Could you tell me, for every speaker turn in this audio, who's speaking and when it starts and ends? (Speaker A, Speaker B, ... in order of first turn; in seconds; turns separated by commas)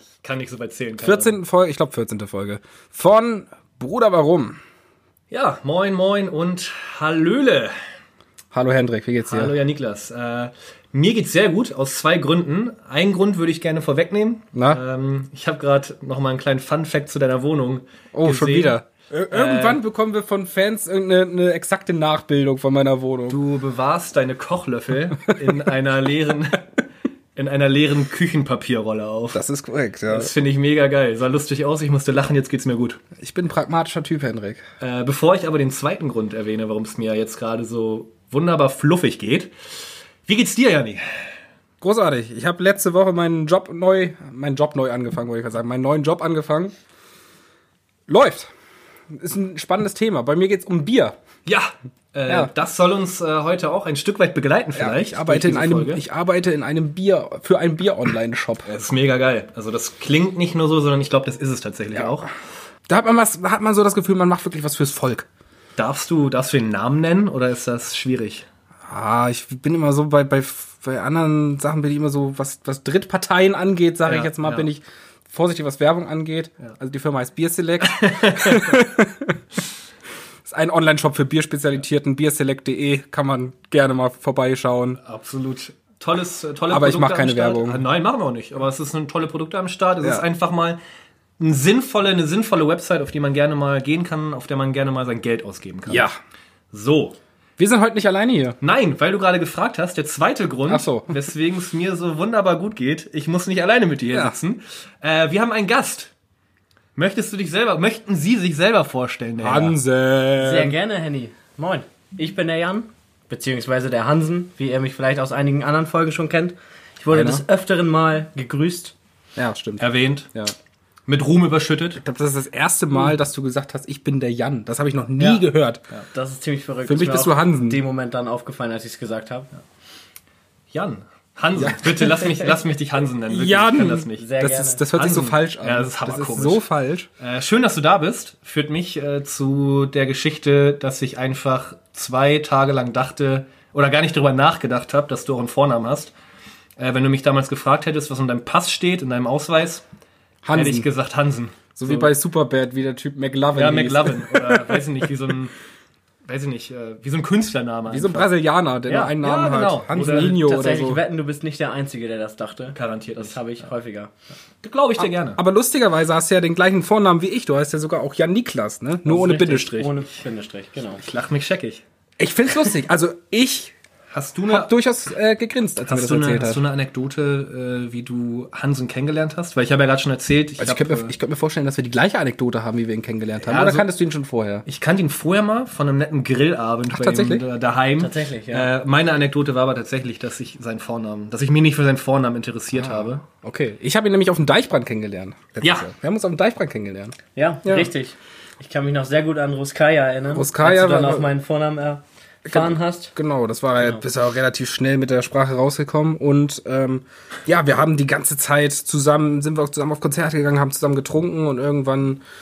Speaker A: 0.2-1.4, Speaker B: 1.0-4.6, Speaker A: 5.3-7.7, Speaker B: 8.5-9.5, Speaker A: 9.2-18.8, Speaker B: 14.5-14.8, Speaker B: 18.1-23.4, Speaker A: 19.3-19.8, Speaker A: 23.3-26.6, Speaker A: 27.4-29.4, Speaker B: 29.3-30.3, Speaker A: 30.1-33.0, Speaker B: 33.2-34.6, Speaker A: 34.8-39.5, Speaker A: 40.2-41.3, Speaker B: 41.8-46.7, Speaker B: 48.1-48.5, Speaker B: 49.1-51.2, Speaker A: 51.5-56.0, Speaker B: 54.7-58.7, Speaker A: 58.7-62.3, Speaker B: 62.9-65.3, Speaker A: 65.8-68.5, Speaker B: 68.9-79.4, Speaker A: 74.0-74.7, Speaker A: 77.9-78.7, Speaker B: 80.5-85.0, Speaker A: 85.0-90.8, Speaker B: 86.7-87.8, Speaker A: 91.4-96.1, Speaker B: 95.9-96.2, Speaker A: 96.7-97.2, Speaker B: 97.6-98.6, Speaker A: 98.6-106.1, Speaker B: 100.7-101.1, Speaker A: 107.0-109.8, Speaker B: 109.4-110.7, Speaker C: 110.4-118.9, Speaker B: 117.1-117.4, Speaker B: 119.3-120.5, Speaker A: 119.8-120.3, Speaker A: 121.0-122.0, Speaker B: 122.0-125.8, Speaker C: 126.1-129.5, Speaker B: 126.9-127.8, Speaker A: 130.7-134.3, Speaker B: 131.6-132.6, Speaker B: 133.3-137.1, Speaker C: 134.1-134.8, Speaker A: 134.9-136.6, Speaker A: 137.2-146.1, Speaker A: 146.8-149.8, Speaker B: 150.4-150.9, Speaker A: 150.5-151.9, Speaker B: 151.8-154.8, Speaker A: 153.5-155.5, Speaker A: 156.2-158.3, Speaker B: 157.9-161.0, Speaker A: 158.9-160.4, Speaker C: 160.3-164.1, Speaker A: 162.7-163.5, Speaker A: 164.6-165.4, Speaker B: 165.0-169.9, Speaker C: 169.0-171.0, Speaker A: 170.9-171.8, Speaker B: 172.2-173.7, Speaker A: 174.1-174.7, Speaker B: 174.5-176.6, Speaker A: 175.8-181.1, Speaker B: 180.6-184.6, Speaker A: 183.4-183.9, Speaker A: 184.7-193.2, Speaker B: 186.9-187.4, Speaker C: 188.0-188.7, Speaker B: 192.7-197.9, Speaker A: 195.6-195.9, Speaker C: 197.3-203.1, Speaker B: 200.3-201.3, Speaker B: 202.4-212.2